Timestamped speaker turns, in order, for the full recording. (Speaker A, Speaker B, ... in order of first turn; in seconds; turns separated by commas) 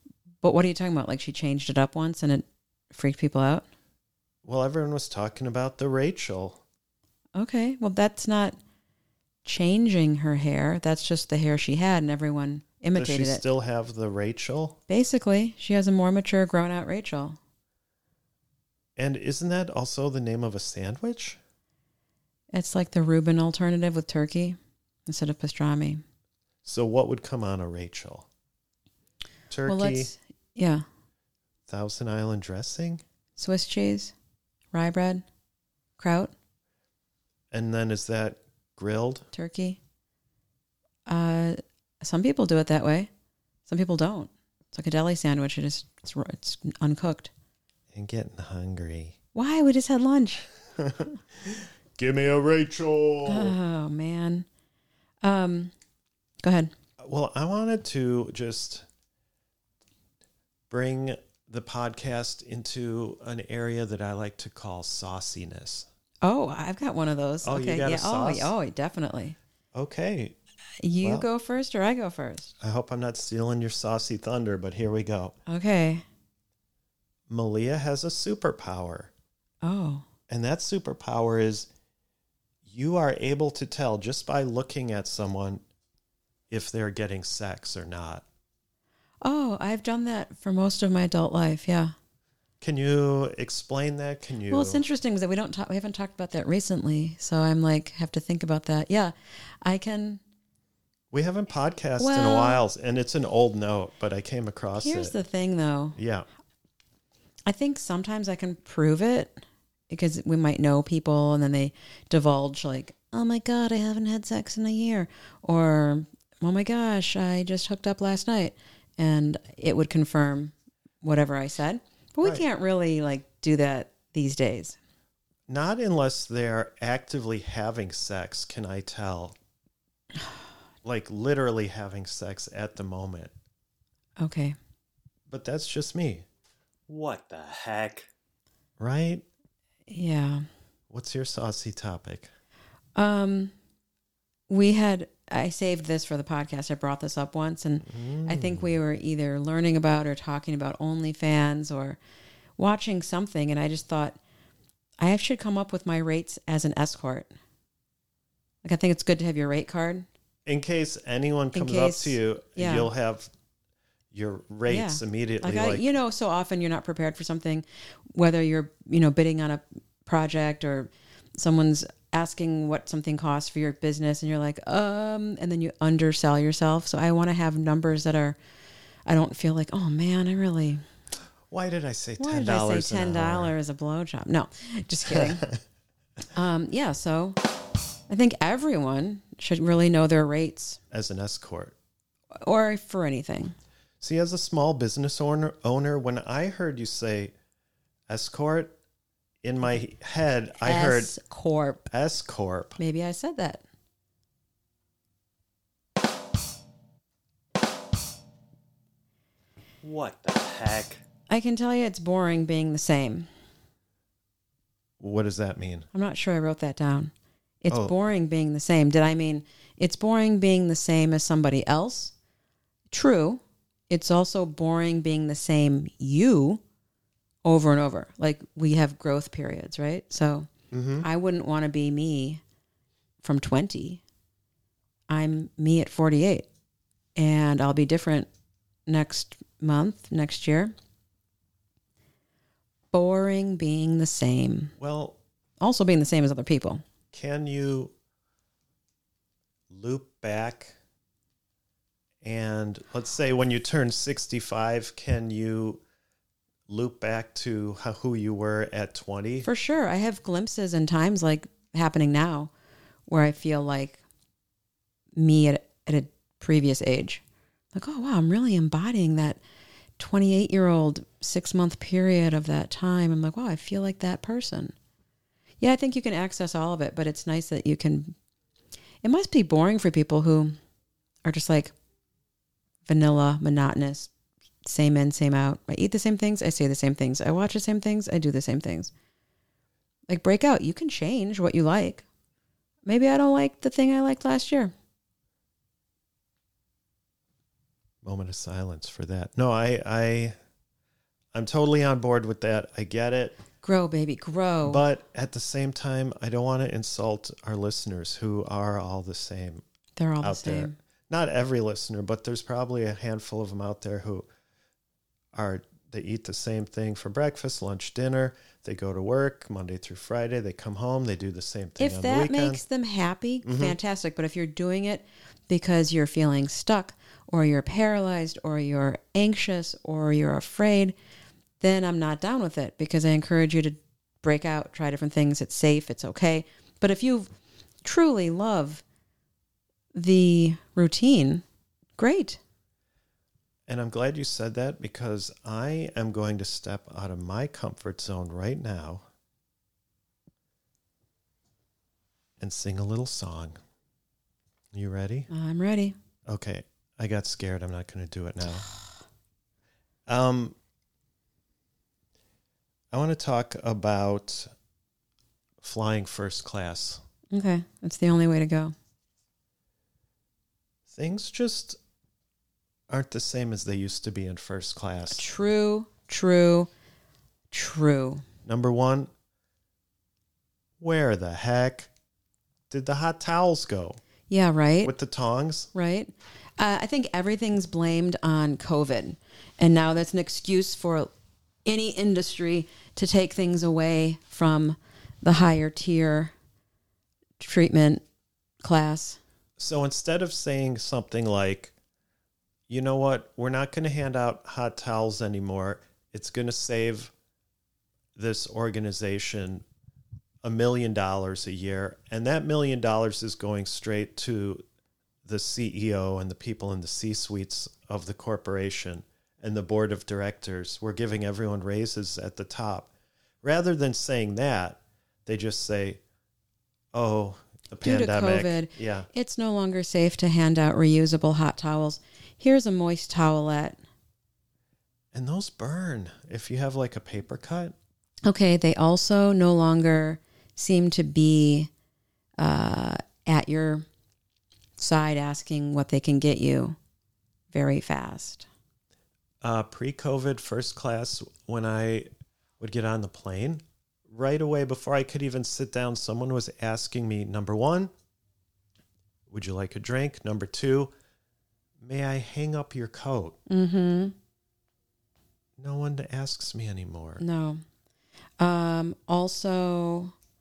Speaker A: 0.4-3.6, Speaker B: 4.5-6.6, Speaker A: 7.4-8.6, Speaker A: 9.4-13.4, Speaker B: 12.9-14.8, Speaker A: 14.9-17.4, Speaker B: 19.0-21.4, Speaker A: 22.5-26.0, Speaker B: 26.6-28.3, Speaker B: 29.5-30.1, Speaker A: 29.6-30.8, Speaker B: 31.7-33.0, Speaker A: 33.4-34.1, Speaker A: 34.7-35.2, Speaker A: 36.0-36.3, Speaker B: 37.5-39.3, Speaker A: 39.3-39.8, Speaker A: 41.1-43.1, Speaker A: 43.7-47.3, Speaker B: 47.9-49.2, Speaker A: 49.3-50.5, Speaker B: 50.8-53.6, Speaker A: 53.3-54.5, Speaker A: 55.2-55.7, Speaker A: 56.4-56.7, Speaker B: 57.0-58.9, Speaker B: 60.7-65.9, Speaker A: 66.2-69.4, Speaker B: 67.4-68.5, Speaker B: 69.8-70.4, Speaker A: 70.8-72.5, Speaker B: 71.0-71.3, Speaker B: 72.6-75.3, Speaker A: 75.5-76.0, Speaker B: 77.3-79.1, Speaker A: 79.6-80.1, Speaker B: 80.3-81.7, Speaker B: 82.7-85.6, Speaker B: 86.5-88.2, Speaker A: 89.2-91.9, Speaker B: 92.6-94.8, Speaker A: 94.5-100.2, Speaker B: 101.1-105.1, Speaker A: 102.0-102.6, Speaker A: 104.7-106.0, Speaker B: 106.0-106.3, Speaker A: 107.5-124.8, Speaker B: 125.5-129.4, Speaker B: 130.8-133.3, Speaker A: 134.2-134.6, Speaker B: 135.3-136.2, Speaker C: 136.9-138.0, Speaker B: 138.8-139.2, Speaker A: 139.9-140.5, Speaker B: 140.9-142.3, Speaker A: 143.0-143.5, Speaker A: 144.5-152.0, Speaker B: 147.8-148.7, Speaker A: 152.6-154.2, Speaker A: 155.0-157.3, Speaker A: 158.6-160.1, Speaker B: 160.5-163.3, Speaker A: 161.5-162.9, Speaker B: 164.1-165.9, Speaker A: 164.7-178.4, Speaker A: 179.1-180.8, Speaker B: 181.5-183.5, Speaker A: 182.2-185.5, Speaker A: 186.3-187.4, Speaker A: 188.1-190.8, Speaker B: 190.9-191.8, Speaker A: 192.4-193.5, Speaker B: 194.0-197.3, Speaker B: 198.1-198.8, Speaker B: 199.4-201.2, Speaker A: 200.6-201.9, Speaker B: 201.9-202.8, Speaker A: 202.8-203.6, Speaker C: 209.8-211.0, Speaker A: 211.3-213.3, Speaker B: 215.0-215.9, Speaker A: 215.9-217.1, Speaker A: 217.6-222.1, Speaker B: 217.7-217.9, Speaker A: 222.9-226.6, Speaker A: 227.4-230.5, Speaker B: 230.7-231.1, Speaker A: 231.0-232.4, Speaker A: 233.2-234.0, Speaker A: 235.1-236.5, Speaker A: 237.2-238.3, Speaker A: 238.9-240.7, Speaker A: 242.9-244.7, Speaker B: 244.8-245.2, Speaker A: 245.6-246.8, Speaker B: 247.1-247.9, Speaker B: 249.7-250.8, Speaker B: 252.2-255.8, Speaker B: 256.7-259.5, Speaker A: 259.4-262.5, Speaker A: 263.1-264.0, Speaker A: 265.1-267.2, Speaker A: 267.7-269.4, Speaker A: 270.0-274.8, Speaker A: 275.6-278.1, Speaker A: 279.0-280.6, Speaker A: 281.2-281.7, Speaker A: 282.9-284.1, Speaker A: 284.6-288.9, Speaker A: 290.1-292.1, Speaker A: 292.9-294.7, Speaker B: 298.0-300.4, Speaker B: 301.3-303.4, Speaker A: 303.6-304.8, Speaker B: 304.6-309.6, Speaker A: 310.0-310.7, Speaker B: 310.2-314.3, Speaker B: 315.3-322.6, Speaker A: 321.8-330.9, Speaker B: 323.4-323.8, Speaker A: 331.6-337.3, Speaker A: 337.8-338.8, Speaker A: 339.9-341.4, Speaker A: 342.0-342.4, Speaker B: 343.7-349.1, Speaker B: 352.4-353.6, Speaker B: 354.7-355.3, Speaker A: 355.3-356.0, Speaker B: 356.3-358.7, Speaker B: 360.1-360.6, Speaker B: 362.9-364.5, Speaker B: 365.6-367.0, Speaker A: 367.3-368.7, Speaker B: 370.9-371.8, Speaker B: 372.9-375.2, Speaker A: 375.1-376.7, Speaker A: 377.5-378.2, Speaker B: 378.5-379.1, Speaker B: 380.8-381.9, Speaker B: 382.7-384.0, Speaker A: 384.3-384.9, Speaker B: 384.8-385.7, Speaker A: 385.7-391.1, Speaker A: 391.6-396.3, Speaker A: 397.4-398.0, Speaker A: 398.6-399.2, Speaker B: 399.6-401.7, Speaker B: 402.7-407.1, Speaker B: 408.2-409.6, Speaker B: 410.4-414.6, Speaker B: 415.2-422.9, Speaker B: 423.4-426.0, Speaker B: 426.9-429.1, Speaker A: 427.8-433.8, Speaker B: 435.1-437.8, Speaker A: 438.2-441.7, Speaker A: 442.4-443.9, Speaker A: 444.8-446.8, Speaker A: 447.5-448.5, Speaker B: 449.4-457.9, Speaker B: 459.3-460.9, Speaker B: 461.8-463.4, Speaker A: 463.5-464.1, Speaker B: 465.6-467.2, Speaker A: 467.2-467.6, Speaker A: 468.4-470.1